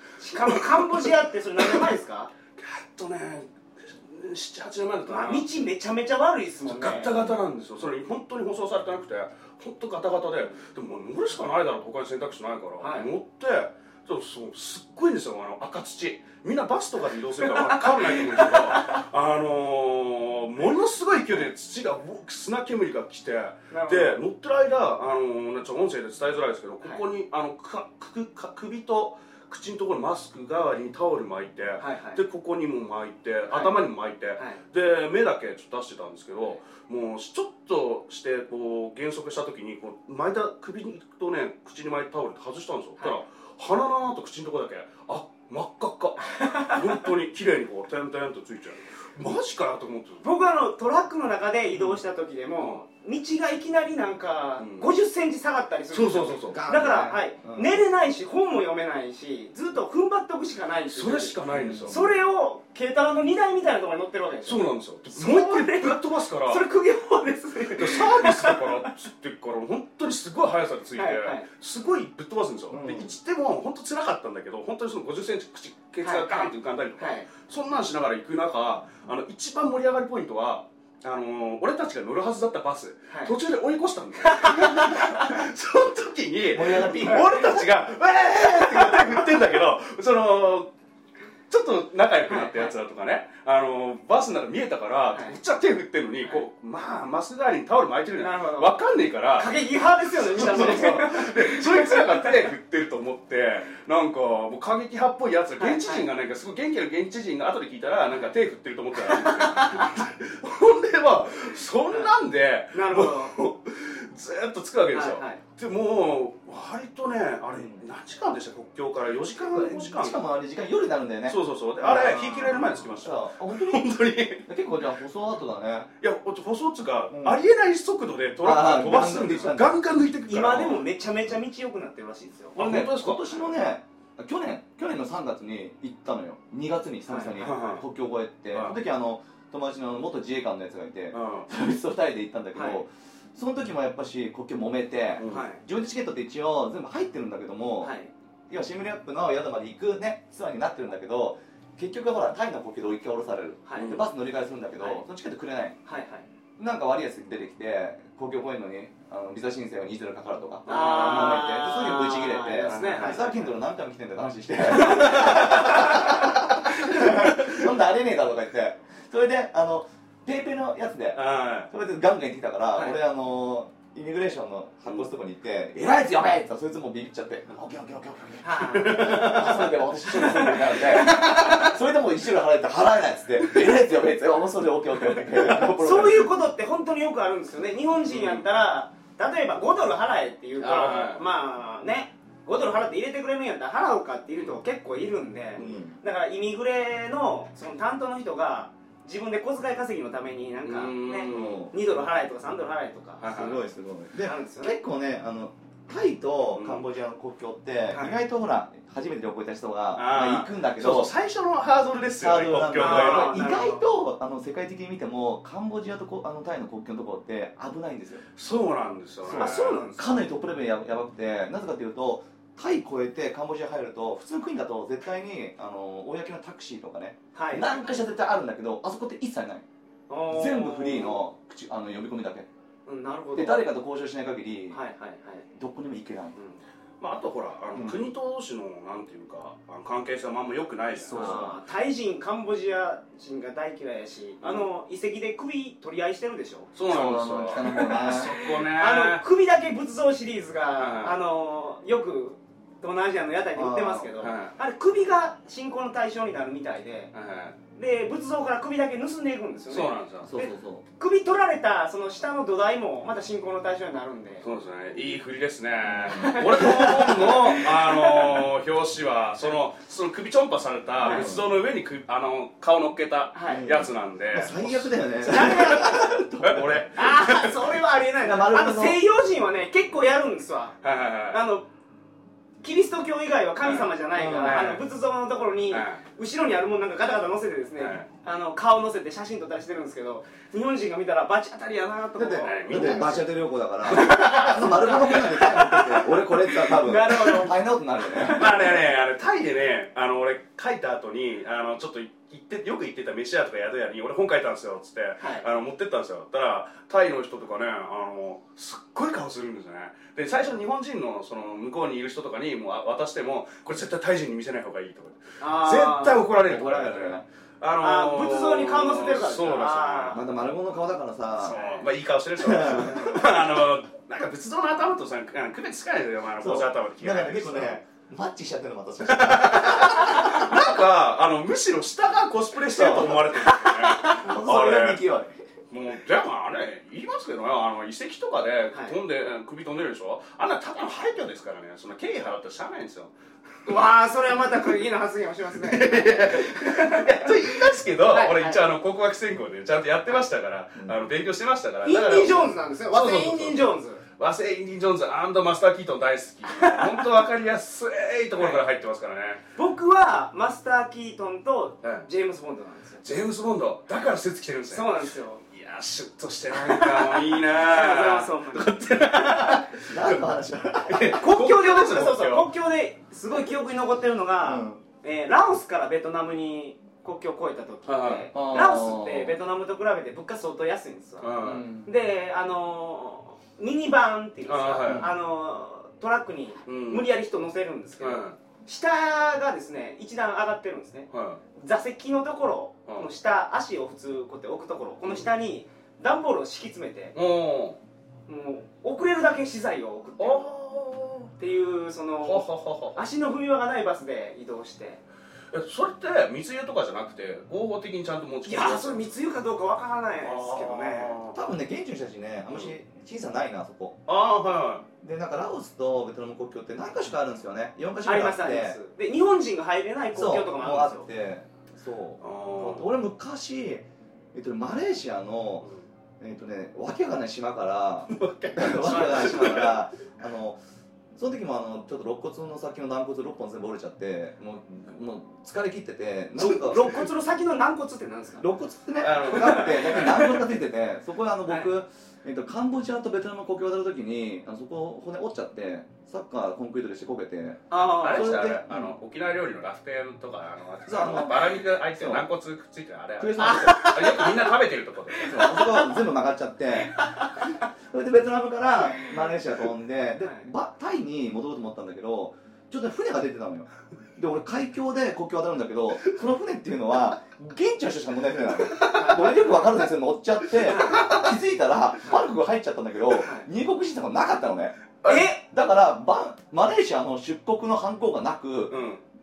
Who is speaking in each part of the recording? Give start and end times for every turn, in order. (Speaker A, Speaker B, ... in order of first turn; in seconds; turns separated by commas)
Speaker A: 0.2-2.3, Speaker B: 0.3-2.0, Speaker B: 2.6-5.5, Speaker A: 5.1-7.2, Speaker B: 6.7-50.3, Speaker A: 12.8-13.1, Speaker A: 17.4-19.0, Speaker A: 23.7-24.2, Speaker A: 31.8-32.2, Speaker A: 33.5-33.8, Speaker A: 46.3-46.8, Speaker A: 50.2-68.8, Speaker B: 54.6-54.9, Speaker B: 55.9-56.7, Speaker C: 56.5-57.8, Speaker B: 60.9-62.1, Speaker C: 61.5-62.0, Speaker B: 64.4-66.7, Speaker B: 67.7-90.7, Speaker A: 71.0-71.5, Speaker C: 72.7-73.2, Speaker A: 76.0-77.3, Speaker A: 84.2-85.4, Speaker C: 86.5-87.5, Speaker A: 87.0-87.6, Speaker A: 88.5-89.2, Speaker B: 91.5-99.6, Speaker A: 92.3-92.7, Speaker A: 98.2-98.7, Speaker A: 99.4-102.5, Speaker B: 100.1-120.2, Speaker A: 105.6-106.1, Speaker A: 109.0-110.1, Speaker A: 112.7-113.3, Speaker A: 114.9-115.4, Speaker C: 117.5-117.8, Speaker C: 119.4-123.8, Speaker B: 121.3-124.5, Speaker A: 121.8-122.3, Speaker C: 124.5-125.9, Speaker B: 126.0-130.9, Speaker C: 127.1-127.4, Speaker C: 128.4-129.8, Speaker A: 130.3-132.9, Speaker B: 132.6-133.3, Speaker C: 132.6-147.9, Speaker A: 137.1-137.4, Speaker B: 137.4-137.8, Speaker B: 138.5-138.8, Speaker B: 141.1-141.5, Speaker A: 142.5-142.8, Speaker B: 145.2-145.4, Speaker A: 145.3-145.6, Speaker A: 147.8-148.1, Speaker C: 148.5-155.8, Speaker A: 153.7-154.0, Speaker B: 153.8-154.1, Speaker A: 155.8-156.2, Speaker C: 156.6-186.3, Speaker B: 160.7-161.5, Speaker A: 160.7-163.5, Speaker B: 162.7-163.2, Speaker B: 164.7-165.9, Speaker A: 164.8-166.3, Speaker B: 167.2-167.7, Speaker B: 171.2-171.7, Speaker A: 178.4-179.4, Speaker B: 178.6-179.8, Speaker A: 180.1-181.7, Speaker B: 180.3-181.6, Speaker B: 185.2-185.7, Speaker A: 185.6-203.3, Speaker B: 188.1-188.4, Speaker B: 190.6-191.2, Speaker C: 195.6-196.0, Speaker B: 195.6-195.8, Speaker B: 200.6-201.7, Speaker C: 201.3-201.7, Speaker B: 203.2-203.6, Speaker C: 203.2-211.1, Speaker A: 204.2-204.8, Speaker B: 206.5-206.8, Speaker B: 209.9-213.5, Speaker C: 212.2-218.2, Speaker A: 212.8-213.8, Speaker B: 218.4-219.8, Speaker C: 219.2-229.7, Speaker A: 219.3-220.2, Speaker A: 227.3-227.8, Speaker A: 230.1-231.3, Speaker C: 230.3-232.5, Speaker A: 232.9-233.7, Speaker C: 233.3-234.8, Speaker A: 234.7-235.5, Speaker C: 235.5-236.4, Speaker B: 237.0-241.5, Speaker C: 237.7-238.1, Speaker A: 241.0-246.7, Speaker C: 241.1-241.6, Speaker B: 244.4-244.7, Speaker B: 246.8-249.2, Speaker C: 246.9-248.4, Speaker A: 247.6-257.1, Speaker B: 250.8-251.2, Speaker C: 253.6-254.1, Speaker B: 254.2-254.6, Speaker B: 257.1-257.6, Speaker A: 257.8-264.4, Speaker B: 259.7-260.3, Speaker C: 260.2-260.8, Speaker B: 264.4-277.7, Speaker C: 265.8-267.1, Speaker A: 266.1-268.4, Speaker A: 271.0-271.3, Speaker C: 271.0-271.5, Speaker A: 273.3-273.7, Speaker C: 273.5-276.8, Speaker A: 275.2-276.1, Speaker A: 276.9-280.8, Speaker C: 278.2-279.0, Speaker B: 280.8-281.4, Speaker A: 281.3-281.7, Speaker A: 282.6-293.2, Speaker B: 283.6-284.8, Speaker C: 284.2-284.7, Speaker B: 285.7-286.0, Speaker B: 287.8-288.1, Speaker C: 292.2-298.7, Speaker B: 292.4-293.3, Speaker B: 293.9-295.4, Speaker A: 293.9-298.8, Speaker B: 298.3-320.2, Speaker A: 305.2-305.5, Speaker A: 315.4-316.3, Speaker C: 316.4-317.2, Speaker A: 317.8-320.3, Speaker C: 320.1-321.6, Speaker B: 321.4-327.8, Speaker A: 321.5-321.8, Speaker C: 322.4-323.2, Speaker C: 326.4-330.6, Speaker B: 329.1-335.0, Speaker C: 332.7-335.3, Speaker B: 335.7-343.1, Speaker A: 343.6-347.5, Speaker B: 345.5-359.4, Speaker A: 348.0-348.6, Speaker A: 351.9-354.0, Speaker A: 356.5-357.2, Speaker A: 358.4-358.6, Speaker A: 359.6-363.1, Speaker B: 363.0-370.2, Speaker A: 364.7-365.4, Speaker A: 366.5-368.8, Speaker C: 369.9-371.2, Speaker B: 370.9-372.5, Speaker A: 371.1-397.1, Speaker C: 374.4-374.8, Speaker B: 377.9-378.3, Speaker C: 378.3-379.4, Speaker B: 381.2-381.7, Speaker C: 381.4-381.9, Speaker B: 384.5-385.1, Speaker C: 384.8-385.1, Speaker B: 386.7-387.1, Speaker B: 388.0-388.4, Speaker B: 391.1-391.4, Speaker B: 397.1-397.8, Speaker A: 398.3-400.5, Speaker B: 400.2-401.3, Speaker A: 401.4-405.0, Speaker B: 402.2-403.1, Speaker B: 405.5-409.1, Speaker A: 408.4-411.2, Speaker B: 410.2-411.4, Speaker C: 411.3-414.0, Speaker B: 414.1-414.9, Speaker C: 415.0-418.8, Speaker A: 418.0-421.1, Speaker C: 420.1-425.7, Speaker B: 422.2-422.9, Speaker C: 426.2-430.6, Speaker B: 428.1-429.8, Speaker A: 428.9-429.4, Speaker C: 431.1-437.1, Speaker A: 436.4-438.5, Speaker C: 438.4-448.9, Speaker B: 439.0-440.2, Speaker A: 439.2-440.4, Speaker A: 447.7-448.4, Speaker B: 448.0-455.5, Speaker C: 450.9-452.2, Speaker C: 453.2-453.9, Speaker A: 453.4-454.5, Speaker A: 455.2-455.9, Speaker C: 455.2-478.8, Speaker A: 456.9-457.6, Speaker A: 460.2-460.5, Speaker A: 468.8-469.4, Speaker A: 470.6-471.2, Speaker A: 473.1-473.5, Speaker B: 475.0-475.3, Speaker A: 475.1-475.4, Speaker B: 478.7-479.0